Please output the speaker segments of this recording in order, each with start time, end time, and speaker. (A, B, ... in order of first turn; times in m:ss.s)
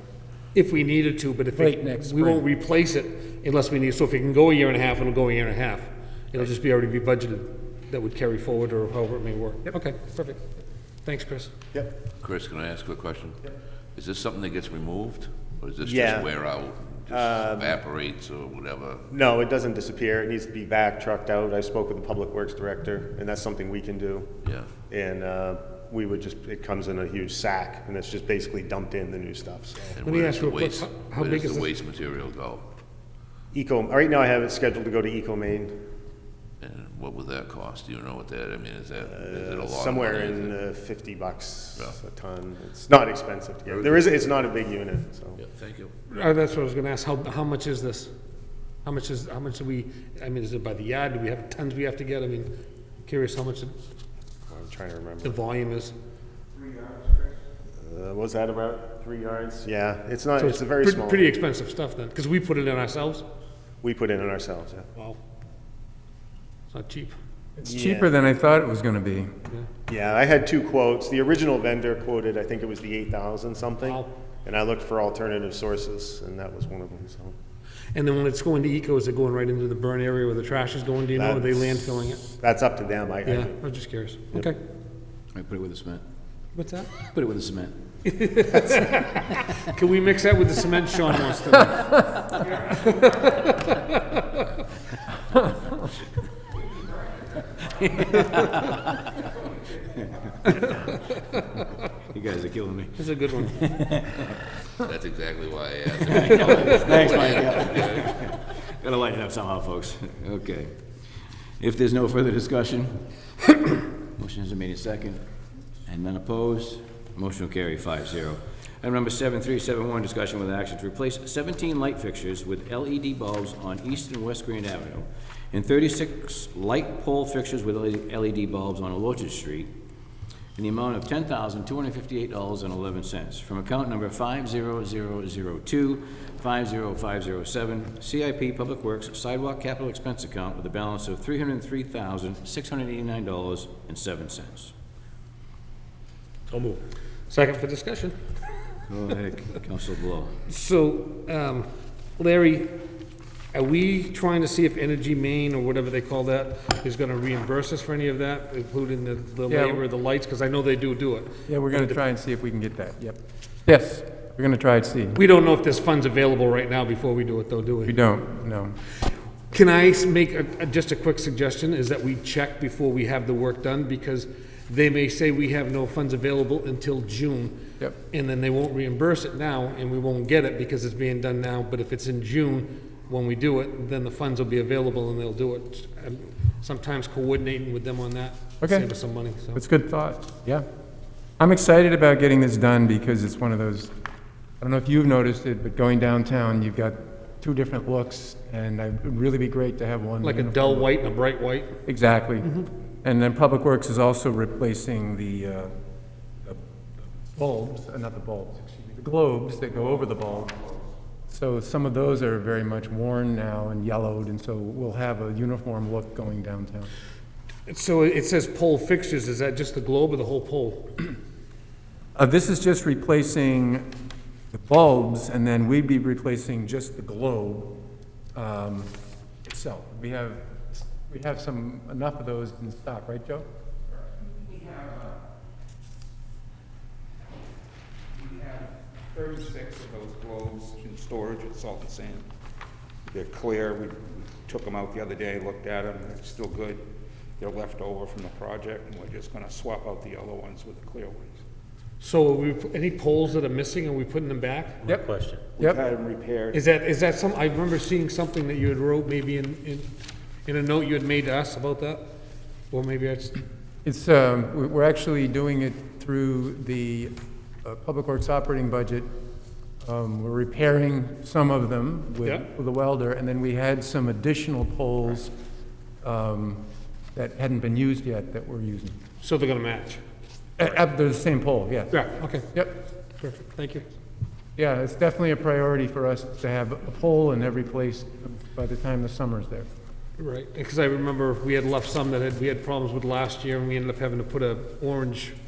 0:00.5-0:10.4 A
0:01.6-0:02.4 B
0:11.0-0:11.5 A
0:12.2-0:13.4 C
0:14.0-0:19.1 C
0:15.8-0:16.3 D
0:17.1-0:17.8 D
0:19.1-0:24.3 D
0:24.4-0:24.7 C
0:24.9-0:30.0 D
0:29.9-0:32.6 C
0:30.0-0:31.8 A
0:33.5-0:35.8 D
0:36.6-0:40.5 C
0:39.0-0:45.4 D
0:43.7-0:44.0 C
0:45.4-0:45.9 C
0:46.1-0:48.1 A
0:48.8-0:52.5 A
0:53.0-0:53.8 A
0:54.5-0:55.4 D
0:55.2-0:55.9 A
0:57.8-1:01.4 D
1:00.4-1:03.2 A
1:03.8-1:04.9 D
1:06.7-1:07.1 A
1:07.6-1:09.3 B
1:07.6-1:08.1 D
1:09.9-1:17.4 D
1:13.8-1:14.1 A
1:17.9-1:22.2 A
1:21.1-1:23.6 D
1:23.3-1:24.6 A
1:25.3-1:26.0 E
1:26.6-1:27.0 A
1:27.0-1:27.8 E
1:28.0-1:34.5 A
1:37.6-1:39.1 E
1:39.9-1:40.8 E
1:40.5-1:40.9 A
1:42.1-1:44.4 E
1:43.0-1:43.8 A
1:44.8-1:48.1 C
1:46.0-1:50.7 E
1:51.6-1:55.2 E
1:55.9-2:09.7 E
2:10.6-2:24.7 E
2:27.3-2:28.2 A
2:28.9-2:30.4 E
2:30.5-2:32.8 A
2:33.5-2:42.0 A
2:39.5-2:39.8 B
2:41.5-2:45.2 B
2:45.2-2:48.0 A
2:47.9-2:48.8 B
2:49.5-3:09.6 A
3:09.6-3:10.7 B
3:11.4-3:13.9 B
3:14.6-3:20.9 B
3:20.2-3:21.8 A
3:21.9-3:25.7 B
3:27.2-3:30.7 B
3:31.3-3:36.9 B
3:37.7-3:41.0 A
3:42.2-3:43.9 B
3:44.5-3:47.8 B
3:48.4-3:48.9 B
3:49.4-3:53.5 B
3:54.5-3:55.0 F
3:58.2-4:02.3 F
4:03.1-4:06.9 F
4:07.4-4:11.4 F
4:12.0-4:15.0 A
4:15.5-4:16.6 F
4:16.5-4:19.9 A
4:20.5-4:22.1 A
4:22.7-4:23.4 A
4:23.8-4:29.1 B
4:29.8-4:35.3 B
4:36.0-4:39.0 B
4:39.2-4:40.0 A
4:40.6-4:42.7 B
4:41.9-4:42.5 A
4:43.2-4:43.9 A
4:44.6-4:49.7 B
4:50.2-4:55.4 A